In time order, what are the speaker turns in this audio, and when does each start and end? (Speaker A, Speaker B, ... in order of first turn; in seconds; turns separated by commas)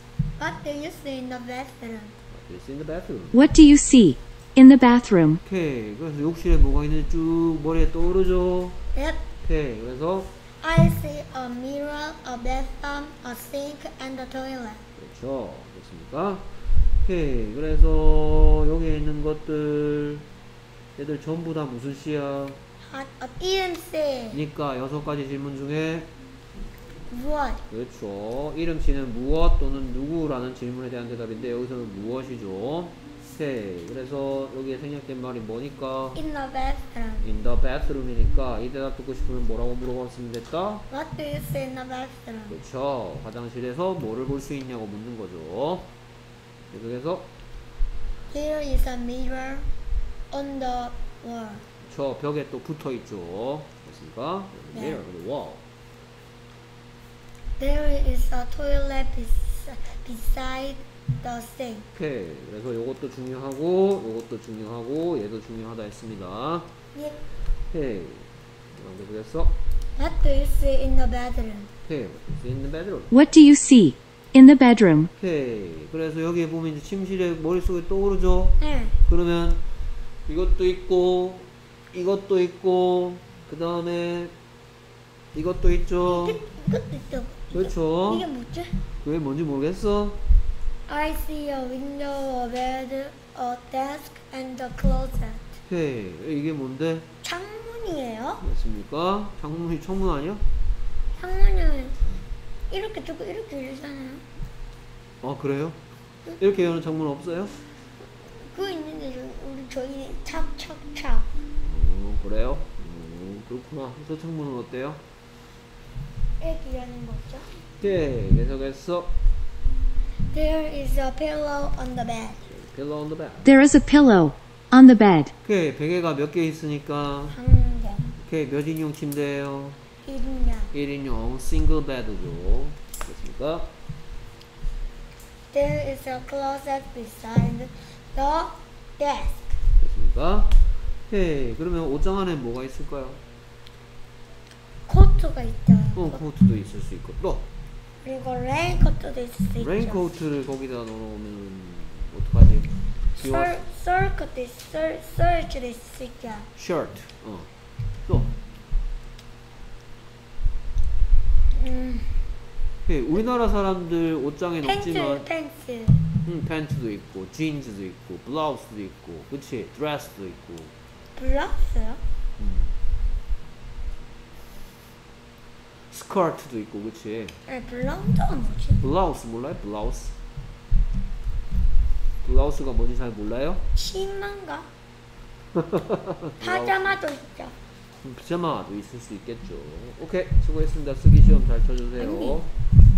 Speaker A: 0.4-2.2, Speaker B: 2.3-3.4, Speaker C: 3.3-5.4, Speaker B: 5.5-8.8, Speaker A: 8.9-9.2, Speaker B: 9.4-10.3, Speaker A: 10.6-14.8, Speaker B: 15.0-20.3, Speaker B: 21.0-22.6, Speaker A: 22.8-24.4, Speaker B: 24.3-26.1, Speaker A: 27.1-27.6, Speaker B: 27.7-36.2, Speaker A: 36.1-37.3, Speaker B: 37.2-40.9, Speaker A: 40.9-42.5, Speaker B: 42.5-45.9, Speaker B: 46.7-47.3, Speaker A: 48.3-49.7, Speaker A: 50.3-51.6, Speaker B: 51.8-55.6, Speaker A: 54.7-55.0, Speaker A: 57.6-61.9, Speaker B: 61.9-66.7, Speaker A: 67.0-67.2, Speaker B: 67.7-69.5, Speaker A: 70.0-71.7, Speaker B: 71.9-73.1, Speaker C: 73.1-75.1, Speaker B: 75.2-79.6, Speaker A: 78.6-79.0, Speaker B: 80.3-84.3, Speaker B: 85.3-86.4, Speaker A: 86.0-88.8, Speaker B: 87.5-88.3, Speaker B: 89.0-90.2, Speaker A: 90.9-95.5, Speaker B: 95.7-97.1, Speaker A: 97.2-98.4, Speaker B: 98.4-100.5, Speaker A: 101.2-102.0, Speaker A: 102.7-104.2, Speaker B: 105.2-105.8, Speaker B: 106.4-107.6, Speaker A: 108.2-111.3, Speaker B: 111.6-115.0, Speaker A: 116.4-117.5, Speaker B: 117.8-119.1, Speaker A: 120.2-122.4, Speaker B: 122.5-123.5, Speaker C: 123.4-125.3, Speaker B: 125.4-127.4, Speaker A: 127.3-128.1, Speaker B: 128.2-129.8, Speaker A: 130.0-130.7, Speaker B: 130.7-133.7, Speaker A: 135.5-139.5, Speaker B: 139.8-143.2, Speaker A: 144.9-146.2, Speaker B: 145.9-147.4, Speaker A: 148.0-150.1, Speaker B: 149.6-153.6, Speaker A: 153.2-156.5, Speaker B: 156.6-157.5, Speaker A: 161.6-162.2, Speaker B: 162.9-165.3, Speaker A: 164.6-166.0, Speaker B: 166.2-170.7, Speaker A: 171.2-172.0, Speaker B: 172.4-172.7, Speaker B: 175.9-177.4, Speaker A: 177.5-178.8, Speaker B: 178.8-180.1, Speaker B: 182.2-183.6, Speaker A: 183.8-184.7, Speaker B: 185.6-187.0, Speaker A: 186.4-187.6, Speaker B: 188.0-192.5, Speaker A: 192.0-192.4